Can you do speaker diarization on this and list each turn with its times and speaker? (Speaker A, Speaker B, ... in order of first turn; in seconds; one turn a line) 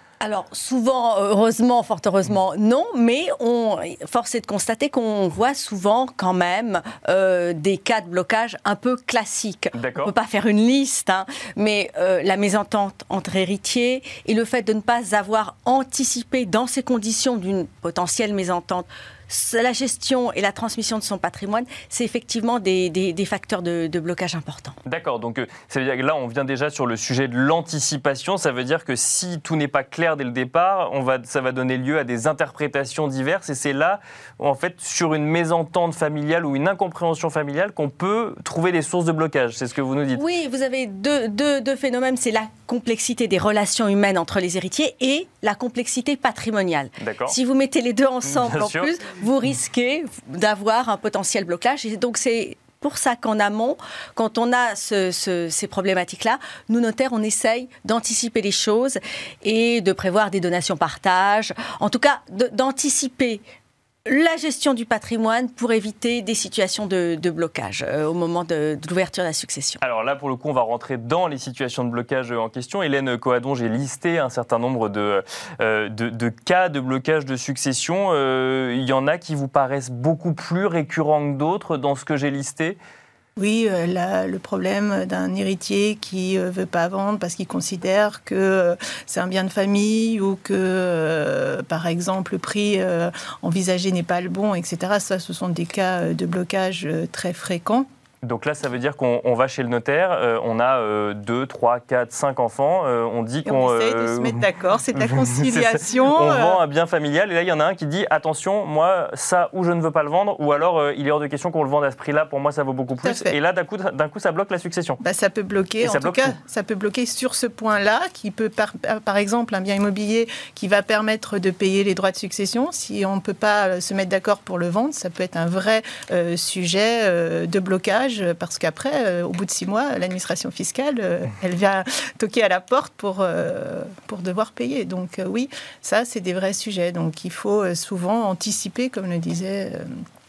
Speaker A: 0.2-24.8
Speaker B: 9.7-10.1
Speaker B: 24.8-40.2
Speaker A: 40.1-63.4
Speaker B: 47.0-47.4
Speaker B: 48.2-48.9
Speaker A: 64.0-69.8
Speaker B: 69.8-82.8
Speaker C: 83.4-97.8
Speaker B: 98.2-104.4
Speaker C: 103.5-106.6
Speaker B: 105.0-115.0
Speaker C: 113.0-113.3
Speaker C: 115.0-139.9
Speaker B: 115.8-116.3